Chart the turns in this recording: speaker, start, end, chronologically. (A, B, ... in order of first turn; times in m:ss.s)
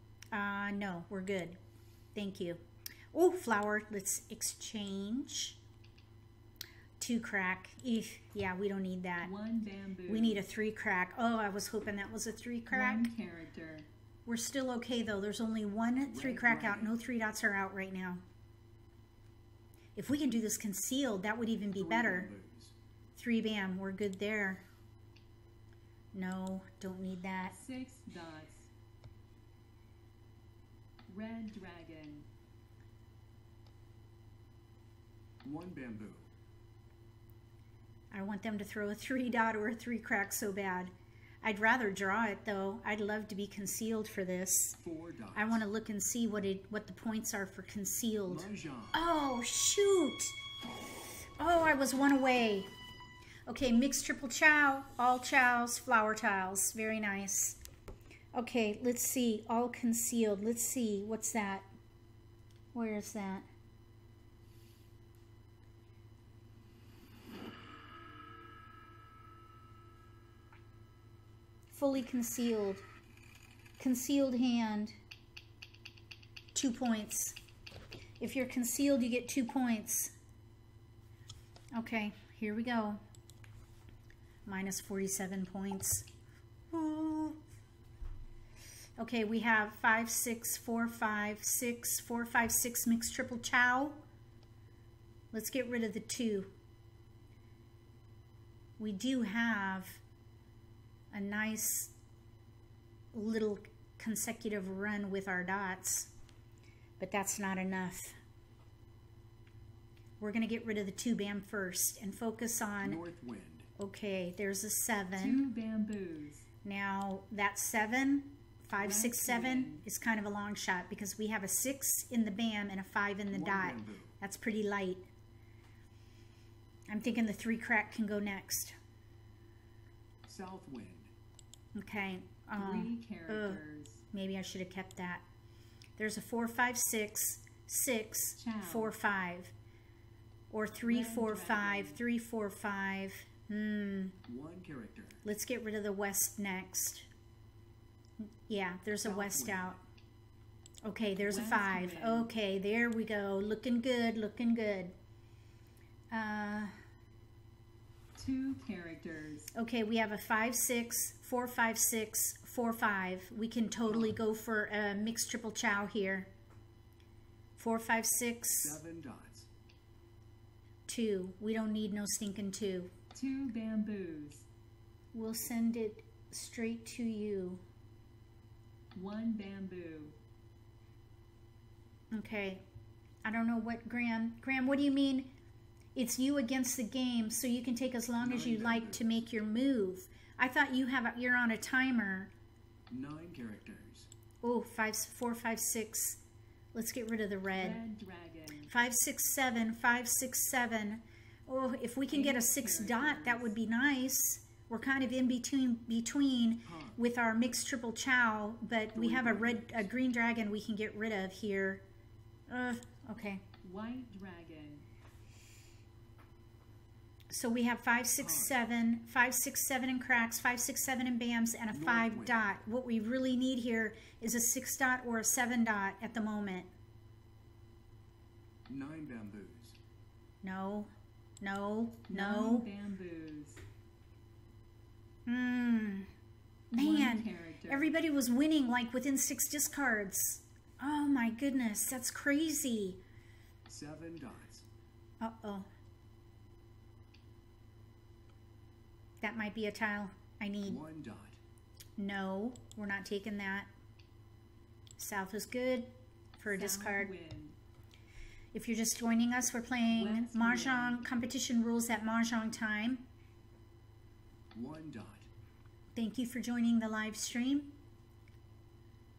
0:00.3-0:01.6 A
0:02.1-0:02.6 A
0:03.1-0:05.6 A
0:07.0-0:09.3 A
0:09.2-0:10.4 B
0:10.1-0:13.1 A
0:12.7-0:13.9 B
0:14.2-0:18.2 A
0:16.0-0:17.0 C
0:19.9-0:22.3 A
0:21.8-0:22.7 C
0:23.1-0:24.6 A
0:26.1-0:27.6 A
0:27.5-0:28.7 B
0:31.1-0:32.2 B
0:35.4-0:36.3 C
0:38.1-0:40.9 A
0:41.4-0:44.8 A
0:44.8-0:45.7 C
0:45.3-0:50.4 A
0:48.3-0:49.0 C
0:51.4-0:52.7 A
0:53.5-0:57.6 A
0:58.3-1:01.6 A
1:02.7-1:03.5 A
1:11.7-1:12.8 A
1:13.8-1:14.9 A
1:16.5-1:17.4 A
1:18.2-1:20.1 A
1:21.7-1:23.0 A
1:24.4-1:26.1 A
1:26.7-1:27.4 A
1:29.0-1:34.0 A
1:35.3-1:36.5 A
1:38.8-1:40.0 A
1:41.1-1:41.9 A
1:43.1-1:46.1 A
1:47.0-1:48.2 A
1:50.2-1:53.0 A
1:52.8-1:53.7 C
1:53.8-1:55.4 A
1:55.2-1:56.4 B
1:56.6-2:05.1 A
1:58.7-1:59.8 B
2:03.3-2:04.2 C
2:06.9-2:08.7 A
2:10.2-2:11.1 C
2:11.7-2:13.6 A
2:12.5-2:14.0 B
2:14.1-2:15.2 A
2:16.0-2:19.5 A
2:18.4-2:18.9 B
2:20.5-2:24.2 A
2:20.8-2:22.0 B
2:24.2-2:25.2 C
2:25.2-2:27.1 A
2:28.5-2:29.8 A
2:29.0-2:29.8 C
2:30.8-2:34.9 A
2:31.2-2:32.3 B
2:36.1-2:36.7 A
2:38.2-2:39.5 B
2:39.5-2:46.3 A
2:43.9-2:44.2 C
2:47.6-2:48.8 A
2:48.5-2:49.5 C
2:50.9-2:52.9 A
2:53.1-2:54.5 B
2:55.1-2:57.6 A
2:58.9-3:00.2 B
3:02.1-3:02.6 A
3:03.2-3:05.3 A
3:05.9-3:12.3 A
3:08.2-3:09.0 C
3:12.9-3:14.1 C
3:14.4-3:16.2 A
3:16.7-3:17.8 A
3:17.5-3:18.7 B
3:18.7-3:31.8 A
3:22.1-3:23.5 B
3:26.6-3:27.0 C
3:28.9-3:29.9 C
3:32.5-3:33.4 A
3:33.6-3:34.8 B
3:37.3-3:46.7 A
3:38.2-3:38.6 C
3:41.7-3:42.5 C
3:48.7-3:49.8 C
3:50.4-3:50.9 A
3:51.4-3:52.7 A
3:52.1-3:53.6 B
3:55.2-3:56.1 A
3:56.7-4:03.0 A
3:56.8-3:57.9 B
4:03.7-4:04.6 C
4:05.2-4:05.7 A
4:09.2-4:10.8 A
4:10.6-4:11.4 C
4:12.0-4:13.7 A
4:15.0-4:17.1 A
4:16.4-4:17.5 B
4:18.5-4:23.0 A
4:19.8-4:21.0 B
4:24.5-4:25.3 C
4:25.9-4:27.7 A